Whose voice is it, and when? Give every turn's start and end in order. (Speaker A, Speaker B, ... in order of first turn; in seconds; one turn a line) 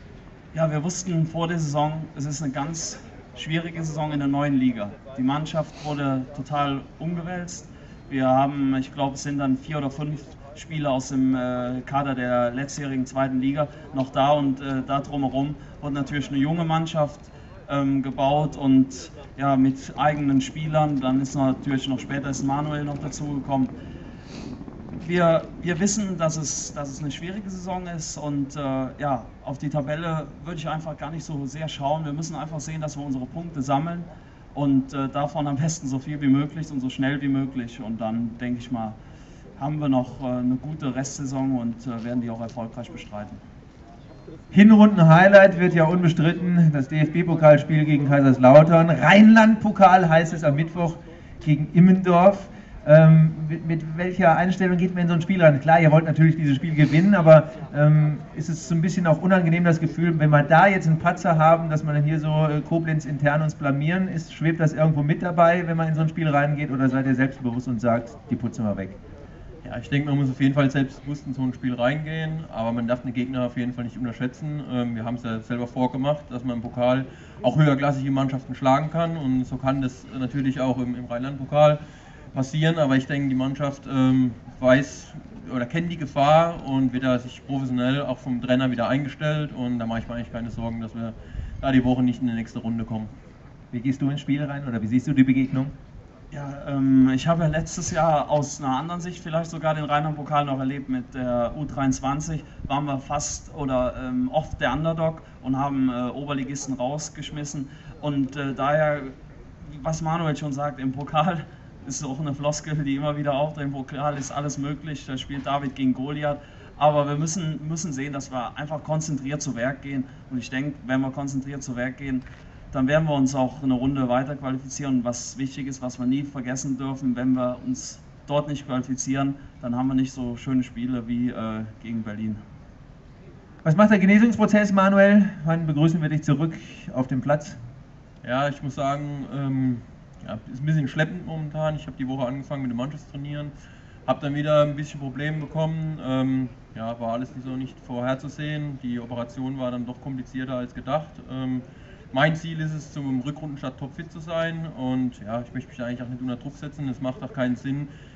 Speaker A: 0.5-23.7
Speaker A: 25.0-39.0
Speaker A: 39.6-43.4
Speaker B: 44.5-69.0
Speaker C: 69.6-81.8
Speaker C: 82.3-93.1
Speaker B: 93.7-95.7
Speaker A: 96.3-132.4
Speaker B: 133.6-137.6
Speaker C: 138.2-143.5
Speaker C: 144.1-157.9